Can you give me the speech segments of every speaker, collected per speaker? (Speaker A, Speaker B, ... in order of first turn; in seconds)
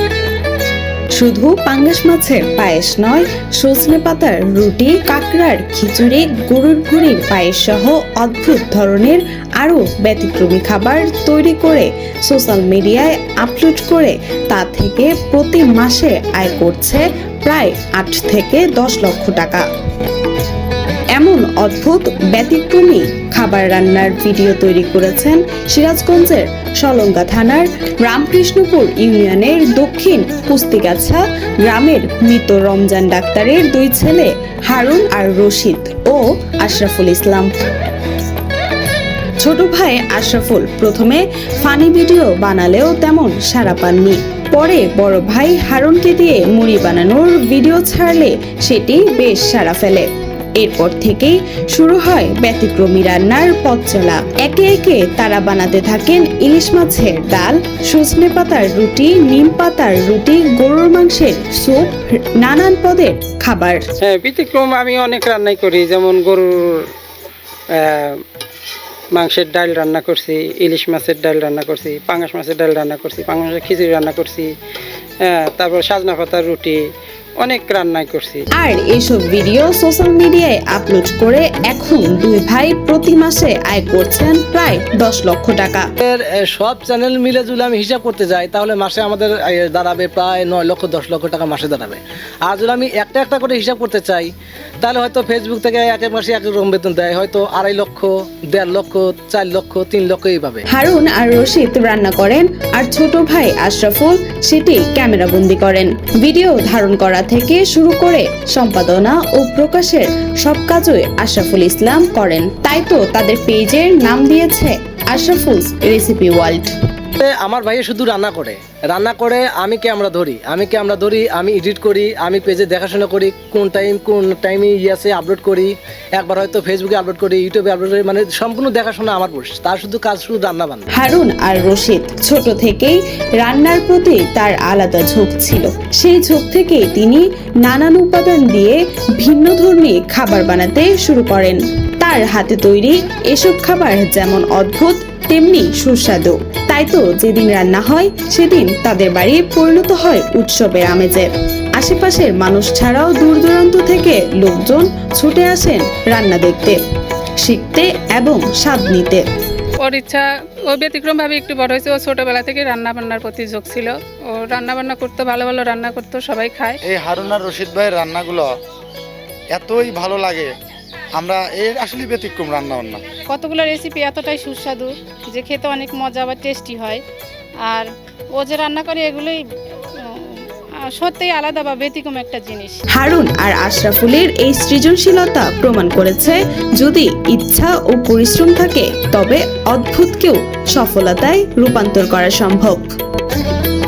Speaker A: 1.1-19.6, 21.1-37.5, 39.4-63.8, 78.5-85.9, 100.7-116.7, 130.9-156.8, 157.4-159.2, 182.9-192.9
Speaker B: 64.0-66.9, 67.8-68.2, 69.1-74.5, 75.3-76.8, 77.4-78.4
Speaker C: 86.0-94.3, 94.8-100.6, 117.2-130.9
Speaker D: 159.8-166.8
Speaker E: 166.8-168.5, 169.5-170.5, 171.2-173.0
Speaker F: 173.3-177.0, 177.7-179.4, 180.0-182.8